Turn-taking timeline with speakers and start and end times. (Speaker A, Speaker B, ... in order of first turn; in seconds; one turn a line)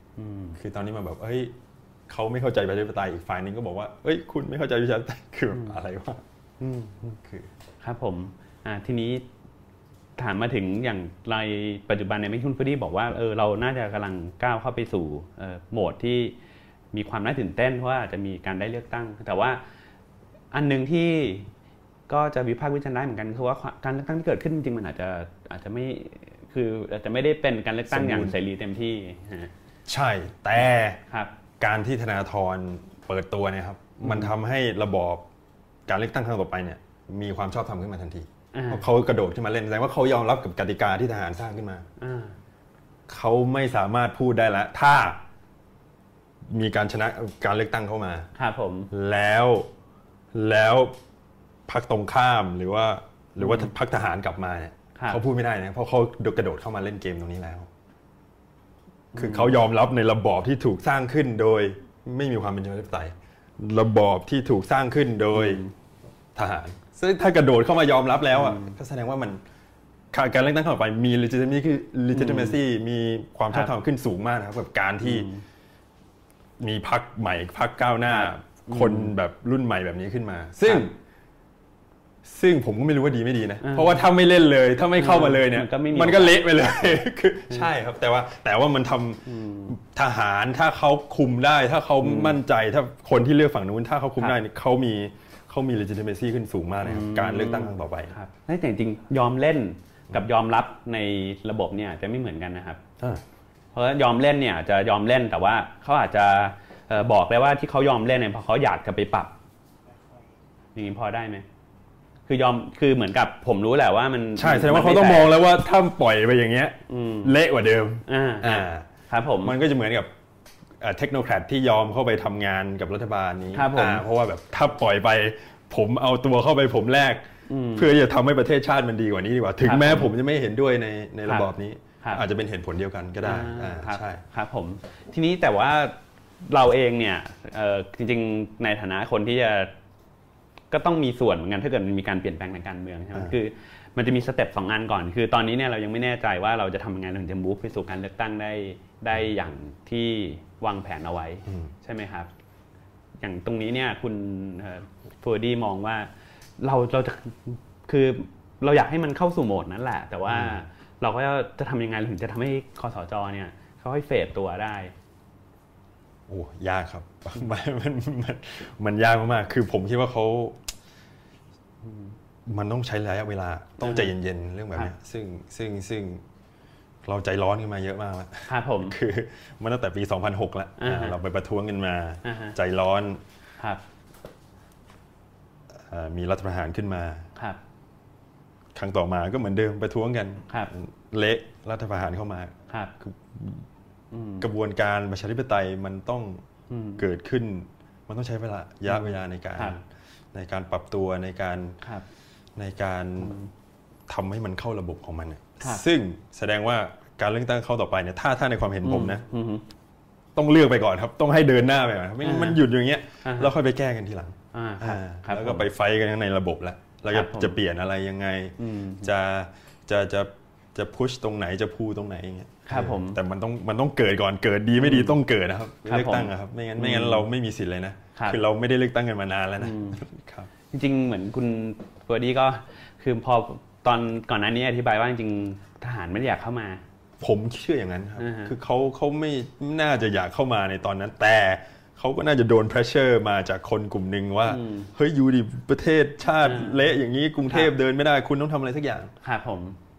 Speaker A: 0.2-0.6
Speaker B: 0.6-1.5
Speaker B: 2.1-6.2
Speaker A: 6.6-7.1
Speaker B: 7.1-7.5
Speaker A: 7.8-9.2
Speaker A: 10.2-16.4
Speaker A: 16.9-19.6
Speaker A: 20.5-21.5
Speaker A: 22.1-29.5
Speaker B: 27.9-28.4
Speaker B: 29.9-31.0
Speaker B: 31.6-35.2
Speaker A: 34.0-34.3
Speaker B: 35.9-41.9
Speaker A: 38.5-38.9
Speaker A: 42.0-42.4
Speaker B: 43.1-45.2
Speaker B: 46.5-48.3
Speaker A: 48.4-48.9
Speaker B: 48.9-49.7
Speaker B: 50.3-50.9
Speaker B: 51.7-57.7
Speaker A: 53.4-53.7
Speaker A: 55.0-55.2
Speaker A: 59.1-59.6
Speaker B: 59.2-65.6
Speaker A: 65.3-65.7
Speaker B: 66.3-69.4
Speaker A: 68.3-68.8
Speaker B: 70.1-75.3
Speaker A: 72.1-72.6
Speaker A: 75.0-75.4
Speaker B: 76.6-81.0
Speaker A: 78.1-79.2
Speaker B: 82.2-98.2
Speaker A: 83.6-84.0
Speaker A: 85.0-87.0
Speaker A: 89.3-89.8
Speaker A: 92.0-92.4
Speaker A: 96.8-102.8
Speaker A: 103.7-109.3
Speaker A: 110.8-111.5
Speaker A: 112.3-115.3
Speaker B: 114.4-118.9
Speaker A: 116.9-117.3
Speaker A: 118.1-119.5
Speaker B: 119.4-120.1
Speaker B: 120.8-127.2
Speaker A: 123.5-124.0
Speaker A: 127.5-127.9
Speaker B: 127.8-134.2
Speaker A: 129.6-130.1
Speaker A: 133.2-139.7
Speaker A: 140.7-152.3
Speaker B: 151.5-151.7
Speaker A: 153.2-164.9
Speaker B: 160.3-160.6
Speaker B: 166.3-170.6
Speaker A: 171.8-172.1
Speaker B: 172.5-176.2
Speaker A: 173.8-174.1
Speaker B: 177.1-183.2
Speaker A: 178.5-179.0
Speaker A: 180.8-181.2
Speaker A: 182.2-182.6
Speaker B: 185.9-187.3
Speaker B: 188.8-193.6
Speaker A: 194.1-194.5
Speaker B: 194.4-196.4
Speaker A: 196.7-197.0
Speaker B: 197.0-199.8
Speaker A: 198.9-199.8
Speaker B: 200.3-201.8
Speaker B: 202.6-203.3
Speaker A: 203.2-203.5
Speaker B: 204.1-209.2
Speaker A: 208.8-209.6
Speaker B: 210.3-230.5
Speaker A: 212.2-212.6
Speaker A: 213.2-213.5
Speaker A: 214.5-215.7
Speaker A: 217.1-217.6
Speaker A: 218.6-219.1
Speaker A: 222.7-223.2
Speaker A: 224.8-225.2
Speaker A: 225.8-227.3
Speaker A: 229.6-230.0
Speaker A: 230.7-236.8
Speaker B: 237.2-249.1
Speaker A: 238.2-238.5
Speaker A: 244.5-244.9
Speaker A: 246.4-246.8
Speaker A: 249.2-249.8